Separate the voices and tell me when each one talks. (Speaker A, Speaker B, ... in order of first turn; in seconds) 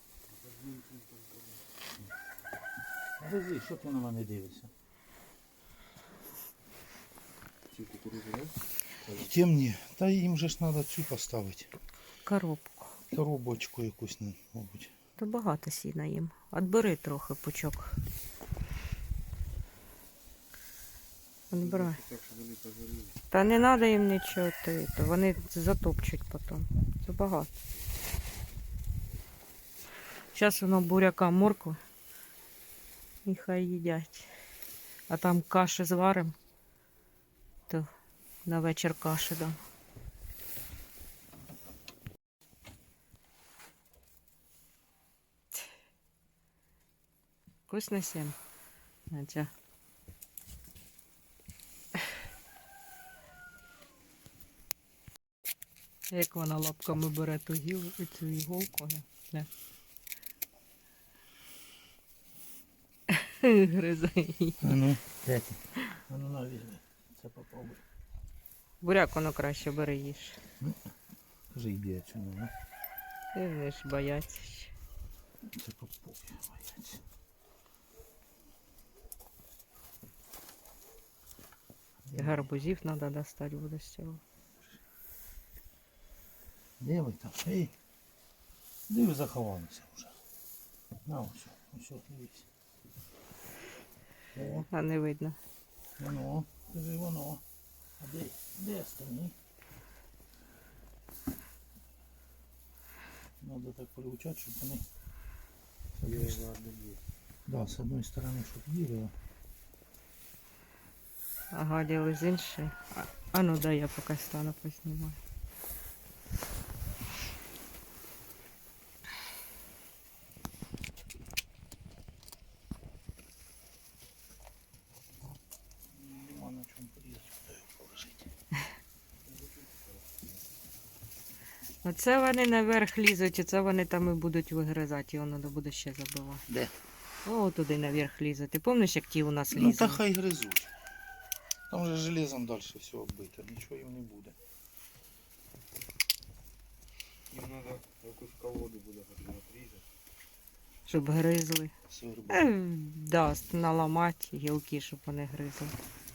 Speaker A: 0.3-1.6, 7.7-9.3, 21.6-23.2, 106.0-107.0, 129.2-130.2, 147.3-149.8
Speaker B: 3.2-4.7, 9.2-11.7, 13.1-14.9, 64.6-67.8, 71.5-72.5, 75.5-77.0, 82.1-82.5, 86.8-87.7, 88.9-90.2, 91.0-92.5, 94.3-94.7, 96.0-97.4, 98.0-99.3, 103.4-104.8, 106.0-106.4, 107.5-109.1, 125.9-128.3, 136.5-136.8, 139.5-140.7, 141.7-144.3, 151.9-152.5
Speaker C: 12.2-12.9, 15.2-17.9, 21.5-22.0, 23.3-27.5, 30.3-31.8, 33.2-34.3, 35.1-36.3, 38.5-39.6, 47.7-48.4, 49.1-49.5, 56.1-59.5, 63.1-64.7, 68.8-70.4, 73.3-74.7, 82.1-84.2, 94.7-95.4, 111.5-115.2, 131.8-136.4, 137.2-140.0, 150.8-151.7, 152.3-155.7